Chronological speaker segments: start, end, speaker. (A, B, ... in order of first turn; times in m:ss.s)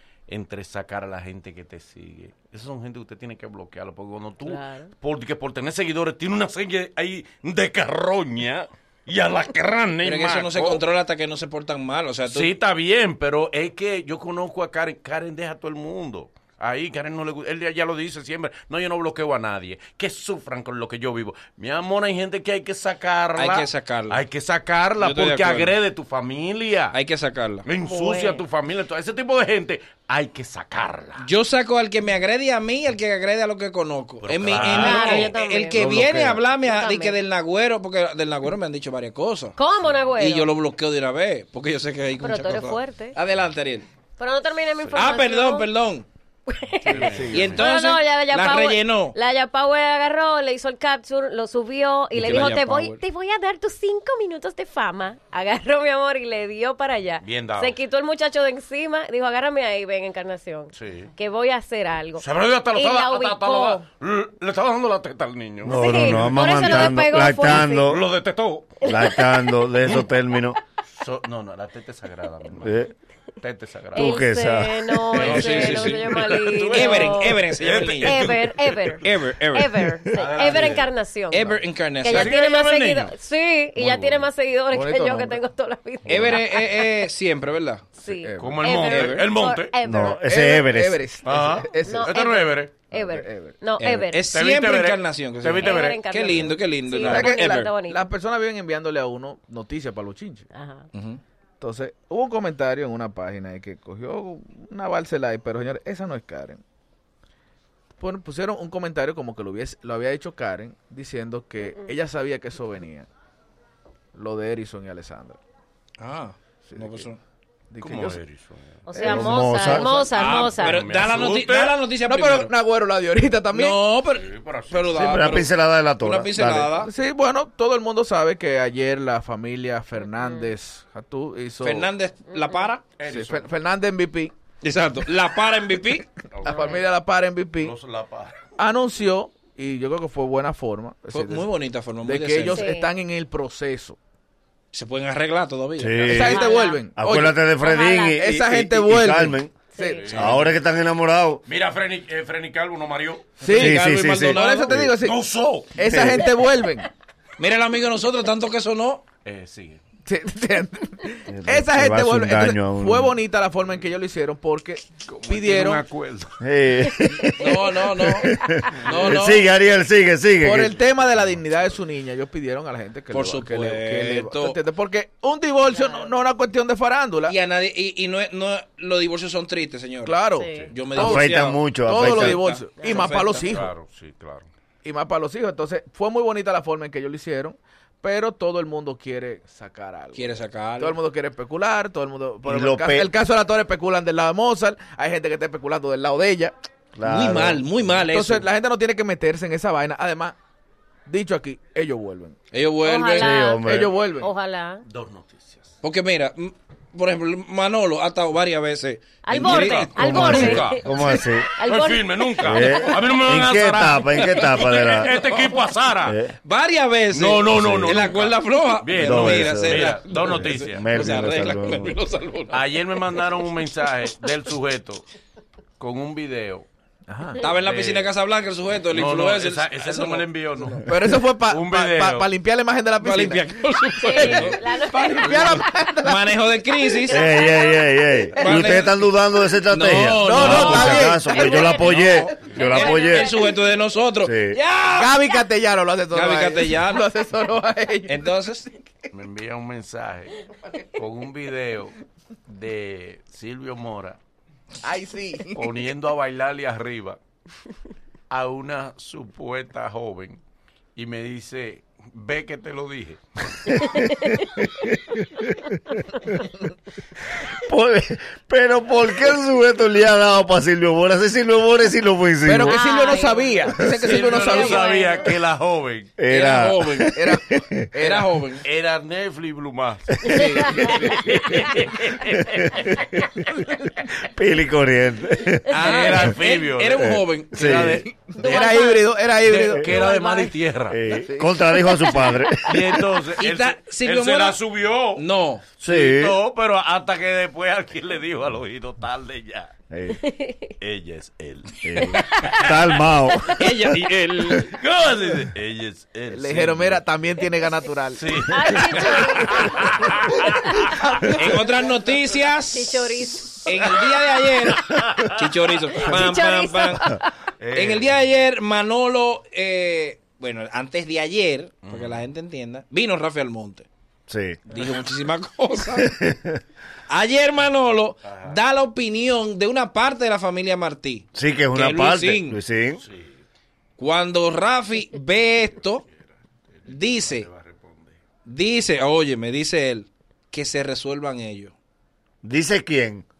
0:00.3-0:10.8 A
0:04.4-0:04.9 B
0:10.0-0:12.5 C
0:12.3-0:26.9 A
0:23.4-0:24.2 C
0:25.0-0:25.7 C
0:26.9-0:27.6 C
0:27.6-0:31.2 A
0:27.8-0:28.4 B
0:31.2-0:39.6 C
0:34.2-0:35.3 A
0:34.5-0:35.9 B
0:35.7-0:36.4 D
0:36.5-0:37.2 B
0:39.6-0:40.5 B
0:40.2-0:43.9 C
0:42.2-0:43.2 B
0:44.2-0:45.7 B
0:44.9-0:46.0 C
0:46.5-1:03.8 B
0:46.8-0:47.6 A
0:47.0-0:47.6 E
0:47.3-0:49.2 C
0:52.1-0:53.0 C
0:57.2-0:57.8 A
1:00.7-1:01.1 A
1:02.2-1:08.8 A
1:05.6-1:08.0 D
1:05.7-1:08.0 B
1:08.8-1:09.4 B
1:08.8-1:10.6 D
1:11.0-1:12.9 A
1:12.6-1:12.9 D
1:13.4-1:14.2 A
1:13.9-1:27.0 B
1:14.0-1:15.0 D
1:15.1-1:19.0 A
1:15.1-1:18.3 C
1:19.0-1:19.9 C
1:20.1-1:20.9 A
1:21.3-1:22.4 C
1:22.1-1:23.1 A
1:23.7-1:24.3 A
1:24.7-1:25.4 E
1:26.1-1:27.9 C
1:26.1-1:26.4 A
1:28.0-1:30.3 B
1:28.0-1:28.7 E
1:28.4-1:29.7 A
1:28.7-1:29.2 C
1:29.8-1:31.0 D
1:30.2-1:32.2 E
1:31.2-1:32.7 A
1:31.8-1:34.3 B
1:32.9-1:33.6 E
1:33.8-1:37.7 C
1:34.3-1:36.5 A
1:35.6-1:38.0 B
1:37.0-1:40.5 E
1:40.5-1:40.9 B
1:40.9-1:41.2 C
1:41.6-1:46.6 E
1:48.0-1:53.1 E
1:54.1-1:55.4 E
1:56.0-1:57.2 C
1:56.7-1:57.0 E
1:57.7-1:58.2 E
1:57.8-1:58.8 A
1:58.8-2:00.9 B
1:58.9-1:59.9 E
1:59.0-1:59.9 D
1:59.9-2:02.5 C
2:00.1-2:01.8 A
2:02.0-2:03.8 E
2:03.5-2:06.9 C
2:04.1-2:05.1 A
2:04.9-2:06.7 D
2:06.8-2:11.9 E
2:10.2-2:10.5 B
2:11.6-2:12.8 C
2:12.3-2:12.7 B
2:13.0-2:13.5 A
2:13.0-2:14.3 E
2:14.6-2:16.0 C
2:16.3-2:16.8 A
2:16.4-2:17.7 E
2:16.5-2:16.8 B
2:17.6-2:18.5 A
2:18.6-2:21.5 E
2:21.1-2:22.6 C
2:22.0-2:24.0 E
2:22.5-2:22.9 B
2:24.7-2:26.3 C
2:25.8-2:29.6 D
2:26.1-2:27.5 E
2:26.2-2:26.8 B
2:27.6-2:28.2 B
2:28.2-2:30.3 E
2:29.7-2:30.1 B
2:30.0-2:30.5 A
2:30.1-2:31.4 D
2:31.4-2:33.4 A
2:33.4-2:35.2 E
2:33.4-2:34.8 C
2:33.5-2:34.9 D
2:35.0-2:35.7 A
2:35.7-2:36.9 E
2:35.8-2:36.2 D
2:37.4-2:39.0 C
2:39.2-2:39.8 A
2:40.0-2:45.8 E
2:41.3-2:43.2 D
2:45.0-2:46.4 A
2:46.4-2:50.8 D
2:47.1-2:47.3 B
2:47.4-2:49.5 C
2:48.4-2:48.7 B
2:48.9-2:49.2 A
2:50.4-2:57.3 E
2:51.2-2:51.7 A
2:53.1-2:54.6 C
2:55.7-2:56.1 B
2:57.3-3:03.5 C
3:00.0-3:03.7 E
3:00.3-3:00.7 B
3:01.0-3:02.4 D
3:02.8-3:03.2 B
3:03.5-3:04.5 A
3:04.8-3:16.5 E
3:10.1-3:11.0 C
3:12.4-3:13.1 D
3:16.9-3:17.6 D
3:17.0-3:18.5 C
3:18.0-3:20.4 E
3:21.1-3:22.4 E
3:22.5-3:23.4 C
3:22.8-3:23.7 B
3:23.2-3:23.9 D
3:23.6-3:24.3 E
3:24.2-3:24.8 B
3:24.8-3:25.7 A
3:25.8-3:30.4 C
3:29.2-3:32.8 B
3:29.3-3:30.8 A
3:30.0-3:31.5 D
3:31.6-3:36.2 A
3:32.4-3:35.1 D
3:36.0-3:36.3 D
3:36.4-3:42.6 C
3:37.1-3:41.1 A
3:37.5-3:38.1 D
3:39.0-3:42.0 D
3:42.5-3:45.0 A
3:45.8-3:46.7 A
3:47.1-3:47.4 E
3:47.4-3:50.8 C
3:47.6-3:48.1 A
3:48.9-3:52.3 A
3:50.8-3:53.5 E
3:53.0-3:57.2 C
3:54.0-3:55.6 B
3:54.2-3:56.5 E
3:56.8-3:58.2 B
3:57.1-4:03.3 D
3:58.4-3:59.1 C
3:59.7-4:05.2 C
4:00.2-4:01.8 E
4:01.2-4:03.7 B
4:04.2-4:04.6 D
4:04.9-4:08.2 E
4:06.1-4:07.0 C
4:08.0-4:08.7 C
4:09.1-4:10.4 A
4:10.9-4:14.2 A
4:14.8-4:15.7 E
4:15.5-4:17.2 A
4:18.3-4:20.4 A
4:21.0-4:23.9 A
4:23.7-4:25.7 D
4:27.5-4:32.8 D
4:32.4-4:35.0 E
4:32.6-4:35.3 B
4:34.0-4:36.1 A
4:36.2-4:37.8 D
4:36.3-4:37.2 C
4:37.1-4:38.4 E
4:38.0-4:38.6 C
4:38.6-4:43.0 A
4:40.2-4:41.3 E
4:40.3-4:41.2 B
4:42.4-4:43.2 D
4:44.2-4:46.3 D
4:45.7-4:47.9 C
4:45.8-4:48.0 A
4:47.0-4:48.0 D
4:47.6-4:50.0 E
4:48.4-4:49.1 B
4:49.4-4:51.0 A
4:49.8-4:50.5 B
4:50.9-4:53.0 D
4:51.1-4:51.7 E
4:52.6-4:55.2 A
4:53.4-4:54.6 C
4:55.1-4:55.6 C
4:55.8-4:59.7 A
4:55.8-4:56.4 D
4:59.9-5:00.2 D
5:00.2-5:00.7 B
5:00.8-5:03.0 A
5:01.8-5:03.7 D
5:03.5-5:04.8 C
5:04.6-5:07.0 A
5:06.3-5:08.5 E
5:08.1-5:11.2 A
5:08.5-5:10.9 B
5:10.9-5:11.8 E
5:11.3-5:17.2 C
5:12.7-5:14.2 B
5:14.7-5:15.4 A
5:15.9-5:17.3 B
5:17.6-5:18.1 A
5:17.7-5:23.9 C
5:21.8-5:22.2 A
5:24.3-5:24.6 D
5:24.7-5:26.1 C
5:25.9-5:26.6 D
5:27.1-5:32.6 C
5:28.2-5:28.6 A
5:31.3-5:33.0 D
5:33.0-5:33.4 A
5:34.0-5:36.0 C
5:36.8-5:38.2 A
5:36.9-5:37.5 C
5:38.4-5:41.7 C
5:42.4-5:43.2 D